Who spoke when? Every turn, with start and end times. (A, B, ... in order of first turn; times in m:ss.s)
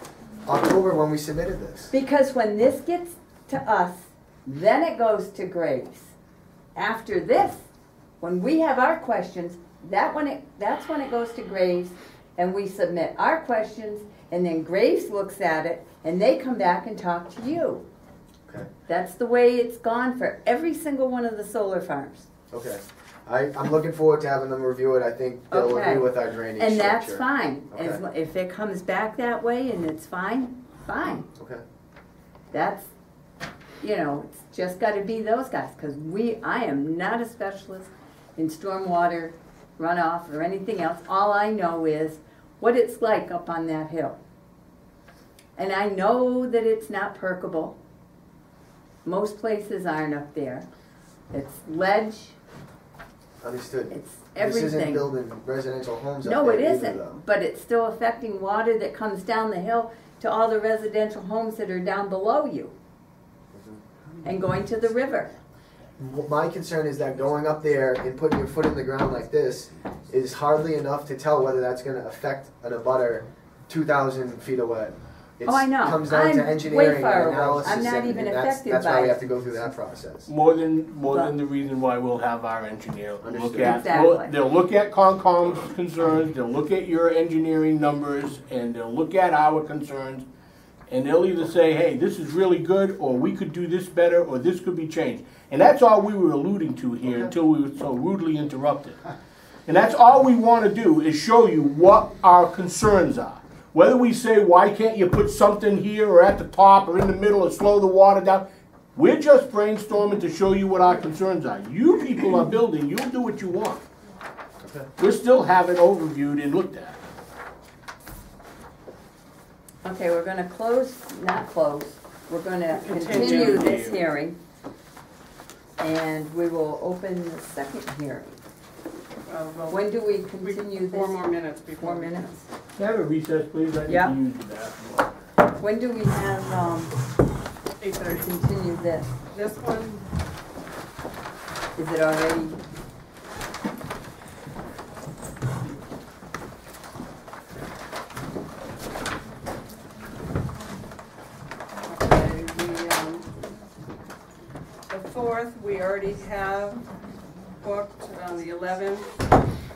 0:00.4-0:01.9 A
0:01.9-0:06.1 B
0:06.8-0:07.6 B
0:08.2-0:17.8 B
0:18.9-0:22.3 B
0:22.5-0:28.0 A
0:25.5-0:31.3 B
0:31.4-0:31.6 A
0:32.5-0:32.9 B
0:33.8-0:44.2 B
0:45.6-0:47.8 B
0:49.0-0:50.7 B
0:51.3-0:52.4 B
0:53.4-0:57.2 A
0:53.9-0:55.1 B
0:56.2-1:02.7 B
1:03.5-1:03.8 A
1:04.2-1:05.3 B
1:06.0-1:20.3 A
1:15.4-1:19.2 B
1:20.3-1:30.2 C
1:21.1-1:21.3 B
1:23.2-1:23.7 A
1:23.6-1:24.4 B
1:30.9-1:39.0 C
1:39.7-1:53.8 C
1:54.6-1:54.9 A
1:55.0-1:57.0 C
1:59.8-2:04.4 B
2:02.7-2:03.9 D
2:03.1-2:04.0 C
2:05.8-2:08.4 B
2:09.2-2:12.5 D
2:09.7-2:11.2 B
2:11.8-2:12.3 B
2:12.8-2:15.1 C
2:13.9-2:14.2 B
2:15.6-2:17.0 B
2:17.8-2:18.3 D
2:18.1-2:19.1 B
2:19.3-2:20.1 D
2:21.8-2:22.6 B
2:31.8-2:33.4 D
2:34.9-2:36.9 D
2:37.6-2:39.2 D